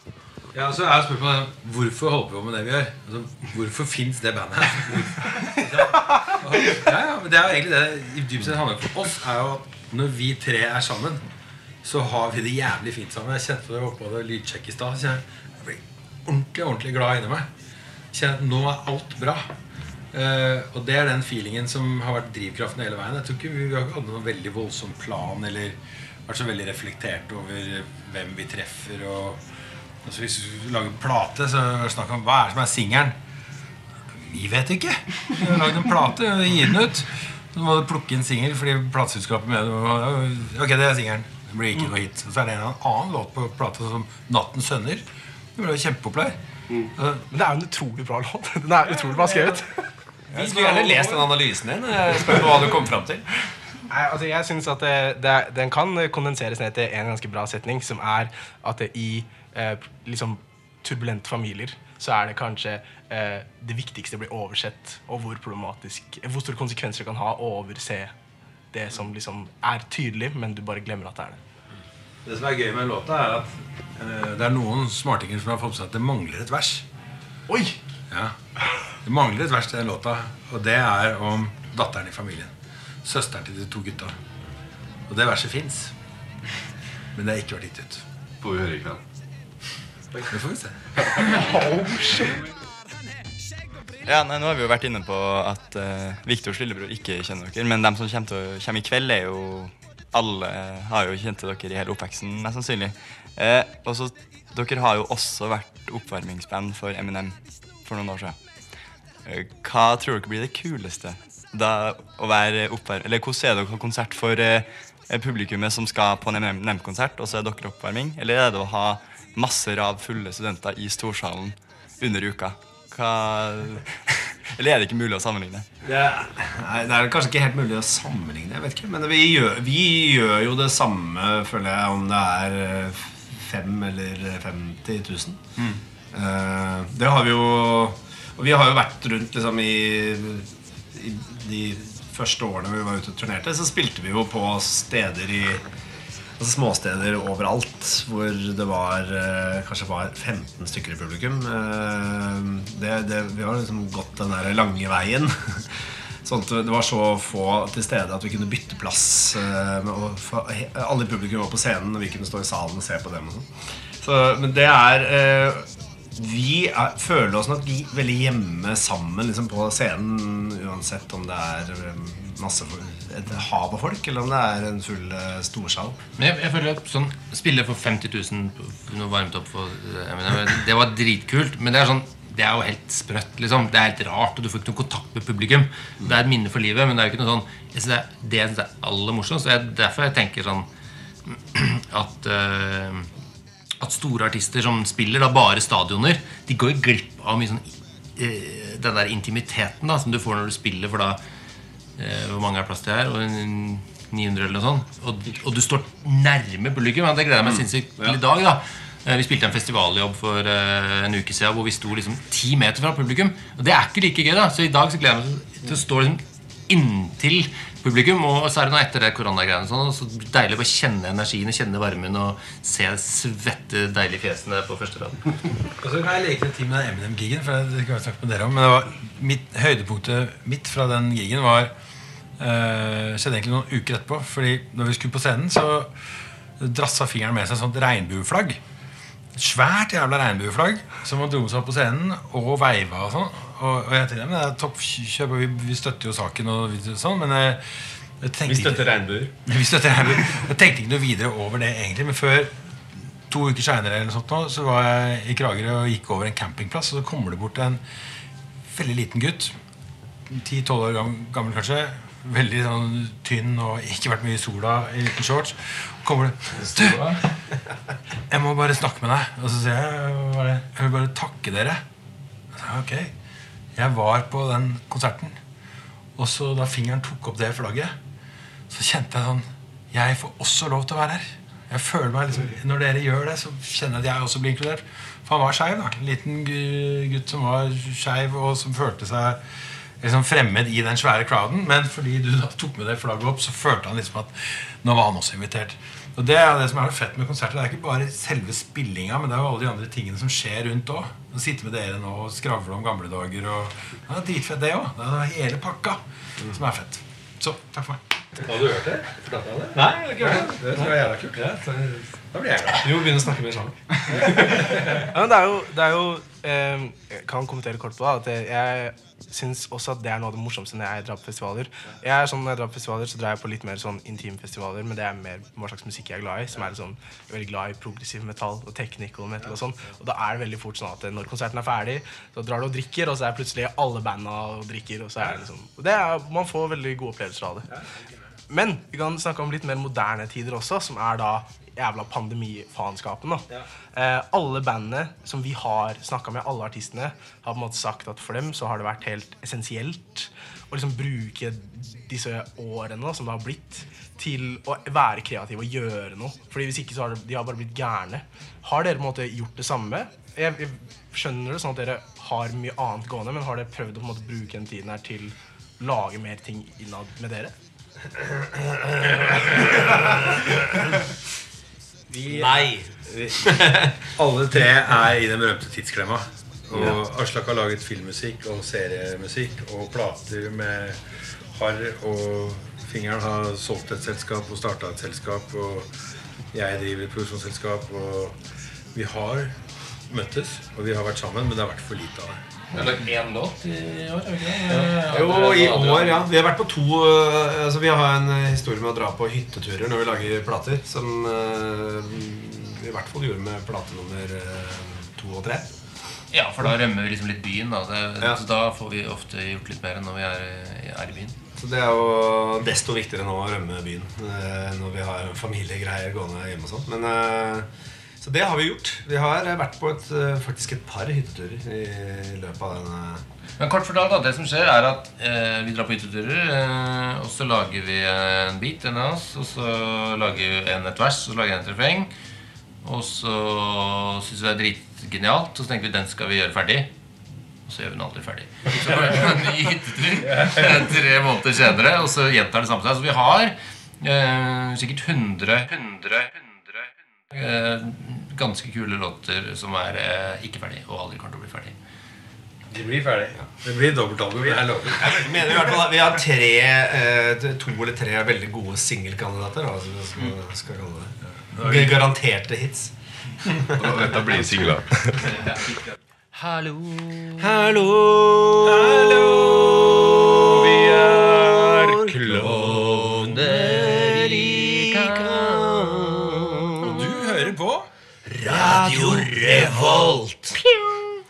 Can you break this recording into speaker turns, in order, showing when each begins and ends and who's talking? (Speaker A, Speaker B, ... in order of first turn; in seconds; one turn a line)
Speaker A: 0.5-11.2
Speaker A: 11.8-17.5
Speaker A: 18.1-19.5
Speaker A: 20.1-29.4
Speaker A: 30.0-33.1
Speaker A: 34.2-45.0
Speaker A: 45.5-46.4
Speaker A: 46.9-47.2
Speaker B: 47.3-49.9
Speaker A: 48.9-49.6
Speaker C: 50.3-53.3
Speaker A: 50.3-51.3
Speaker B: 53.9-68.1
Speaker B: 68.7-71.4
Speaker A: 72.2-76.8
Speaker B: 77.5-77.8
Speaker A: 79.0-82.5
Speaker A: 83.0-84.1
Speaker A: 85.1-85.9
Speaker A: 87.1-88.0
Speaker D: 88.4-89.0
Speaker A: 90.3-91.6
Speaker B: 91.2-92.4
Speaker E: 94.0-108.4
Speaker E: 109.2-125.7
Speaker C: 125.8-135.4
Speaker C: 136.1-145.6
Speaker C: 146.4-163.5
Speaker C: 164.0-176.0
Speaker F: 176.2-190.7
Speaker F: 191.2-193.1
Speaker F: 193.8-201.2
Speaker F: 202.0-225.3
Speaker C: 207.4-208.2
Speaker A: 225.8-231.7
Speaker A: 232.4-235.9
Speaker A: 236.6-238.6
Speaker A: 239.3-247.6
Speaker A: 248.2-248.9
Speaker C: 248.4-249.3
Speaker A: 249.4-252.5
Speaker A: 253.3-257.8
Speaker A: 258.7-259.5
Speaker A: 260.3-267.2
Speaker A: 268.3-271.8
Speaker A: 272.5-273.1
Speaker A: 273.8-275.4
Speaker A: 276.2-277.9
Speaker A: 278.7-289.4
Speaker A: 290.0-311.5
Speaker C: 309.7-312.1
Speaker A: 312.3-313.1
Speaker C: 312.7-314.9
Speaker A: 314.4-314.9
Speaker B: 314.9-337.7
Speaker B: 338.5-367.5
Speaker C: 368.1-370.6
Speaker A: 372.1-381.0
Speaker C: 372.3-374.1
Speaker A: 381.5-385.9
Speaker A: 386.5-388.3
Speaker A: 388.9-389.5
Speaker A: 390.1-392.4
Speaker F: 392.7-396.2
Speaker C: 394.8-405.7
Speaker F: 406.3-411.4
Speaker C: 411.6-417.7
Speaker C: 418.2-423.2
Speaker F: 423.6-432.1
Speaker F: 432.8-436.9
Speaker F: 437.7-451.8
Speaker A: 452.7-455.8
Speaker C: 454.4-464.4
Speaker A: 461.4-462.1
Speaker D: 463.8-465.3
Speaker F: 466.3-467.6
Speaker C: 467.4-476.4
Speaker A: 468.6-471.8
Speaker F: 472.0-475.9
Speaker A: 476.8-477.9
Speaker F: 478.3-480.7
Speaker C: 478.4-480.4